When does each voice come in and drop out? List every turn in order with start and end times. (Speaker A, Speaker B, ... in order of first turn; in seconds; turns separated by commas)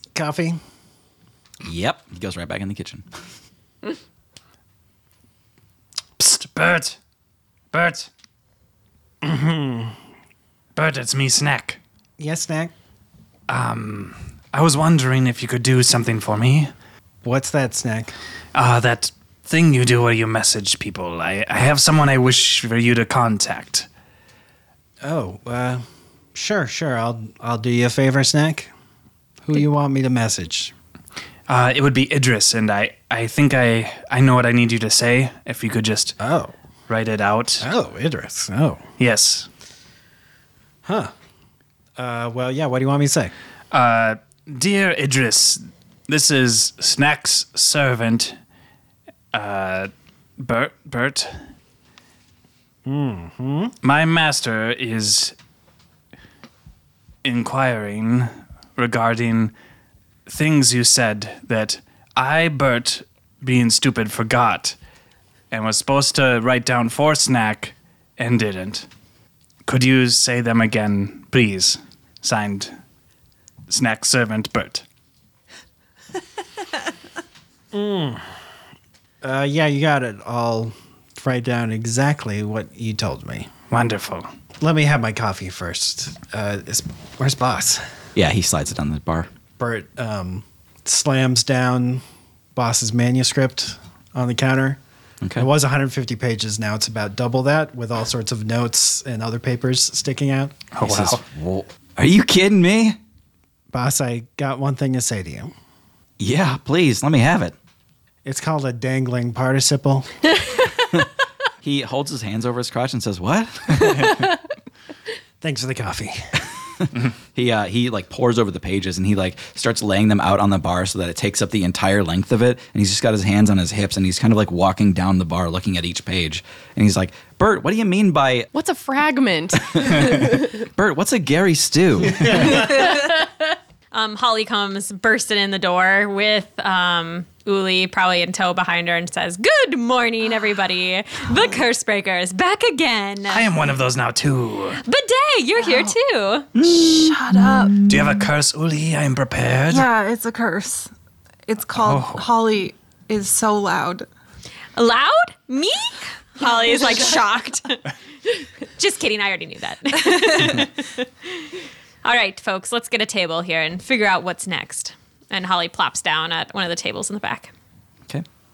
Speaker A: 0.1-0.6, Speaker B: 1.6-3.0, Speaker C: 6.2-7.0, Speaker C: 7.7-8.1, Speaker A: 9.2-9.9, Speaker C: 10.8-11.8, Speaker A: 12.2-12.7, Speaker C: 13.5-16.7, Speaker A: 17.2-18.1, Speaker C: 18.5-23.9, Speaker A: 25.0-28.7, Speaker A: 29.4-30.7, Speaker C: 31.5-36.2, Speaker A: 36.2-36.5, Speaker C: 36.9-37.7, Speaker A: 37.6-38.9, Speaker C: 39.0-39.5, Speaker A: 40.9-41.1, Speaker A: 42.0-43.3, Speaker C: 43.7-48.4, Speaker C: 49.3-51.4, Speaker A: 52.9-53.7, Speaker C: 53.8-55.4, Speaker C: 57.2-59.5, Speaker C: 60.3-64.8, Speaker C: 65.5-68.9, Speaker C: 69.7-72.7, Speaker C: 73.7-74.8, Speaker A: 77.7-78.2, Speaker A: 79.2-83.5, Speaker C: 83.7-84.3, Speaker A: 84.6-87.8, Speaker B: 88.2-89.3, Speaker A: 89.6-92.0, Speaker A: 92.5-94.8, Speaker A: 95.4-100.6, Speaker C: 100.7-101.2, Speaker B: 100.8-103.0, Speaker A: 103.7-105.5, Speaker B: 106.2-107.5, Speaker A: 108.2-110.2, Speaker B: 111.6-114.1, Speaker A: 115.4-116.2, Speaker B: 117.3-128.5, Speaker D: 128.5-130.5, Speaker B: 129.6-132.6, Speaker D: 132.6-133.2, Speaker E: 133.9-143.5, Speaker C: 143.3-144.8, Speaker E: 144.8-146.5, Speaker F: 145.6-145.9, Speaker F: 146.6-148.0, Speaker C: 147.9-149.9, Speaker F: 149.7-150.9, Speaker F: 151.5-154.1, Speaker C: 151.8-152.3, Speaker E: 154.8-157.9, Speaker F: 156.4-157.2, Speaker E: 158.8-167.5